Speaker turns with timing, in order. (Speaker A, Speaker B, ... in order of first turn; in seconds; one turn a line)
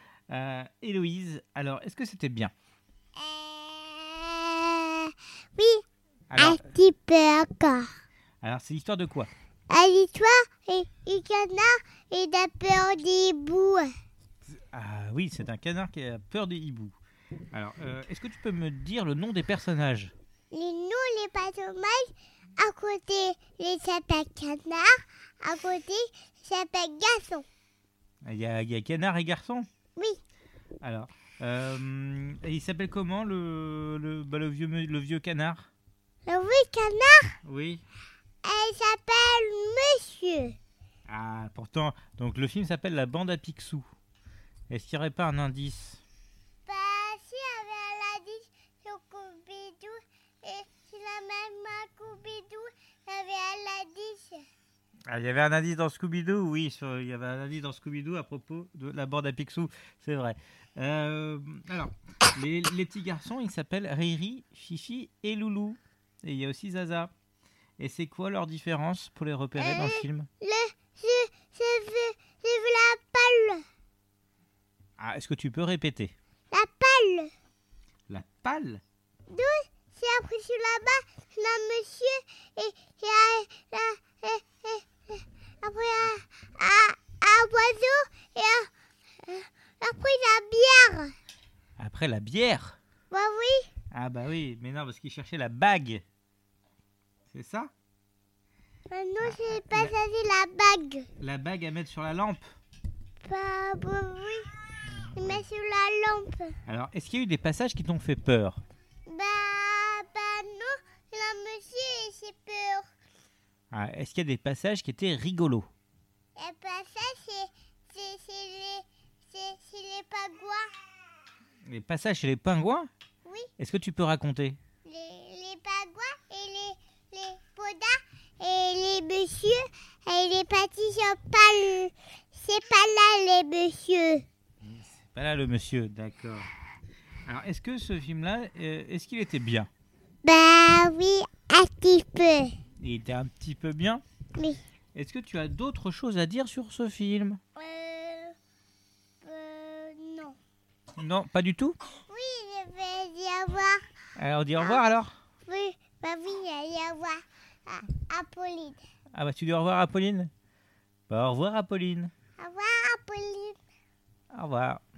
Speaker A: 0.3-2.5
Speaker B: 3.2-5.8
Speaker A: 6.3-6.6
Speaker B: 6.4-7.9
Speaker A: 8.4-9.3
Speaker B: 9.7-13.9
Speaker A: 14.5-17.0
Speaker A: 17.5-20.1
Speaker B: 20.5-27.5
Speaker A: 28.2-29.7
Speaker A: 30.8-35.7
Speaker B: 36.3-37.4
Speaker A: 37.4-37.8
Speaker B: 38.4-40.6
Speaker A: 41.1-43.9
Speaker A: 44.7-46.0
Speaker B: 46.7-54.5
Speaker A: 55.1-67.1
Speaker A: 67.8-70.3
Speaker B: 69.6-73.6
Speaker A: 75.0-76.2
Speaker B: 76.5-77.3
Speaker A: 78.1-78.8
Speaker B: 79.3-88.7
Speaker B: 89.2-91.1
Speaker A: 91.8-92.8
Speaker B: 93.1-93.7
Speaker A: 93.9-96.0
Speaker A: 97.3-97.7
Speaker B: 98.9-101.1
Speaker A: 99.2-99.9
Speaker A: 101.2-102.5
Speaker B: 103.2-104.5
Speaker A: 104.8-105.4
Speaker B: 105.2-106.6
Speaker A: 106.7-108.6
Speaker B: 109.1-112.9
Speaker A: 113.7-115.7
Speaker B: 116.4-120.7
Speaker A: 121.7-122.9
Speaker B: 123.2-123.5
Speaker A: 123.6-124.6
Speaker B: 124.9-134.3
Speaker A: 134.6-136.5
Speaker A: 137.3-139.7
Speaker B: 140.2-142.5
Speaker A: 142.8-144.0
Speaker B: 144.4-144.6
Speaker A: 144.9-147.4
Speaker B: 147.6-148.3
Speaker B: 149.2-150.4
Speaker A: 151.0-151.8
Speaker B: 152.1-153.8
Speaker A: 154.2-155.1
Speaker B: 155.5-158.8
Speaker A: 159.2-160.3
Speaker A: 161.1-162.1
Speaker B: 162.4-163.6
Speaker A: 164.3-164.8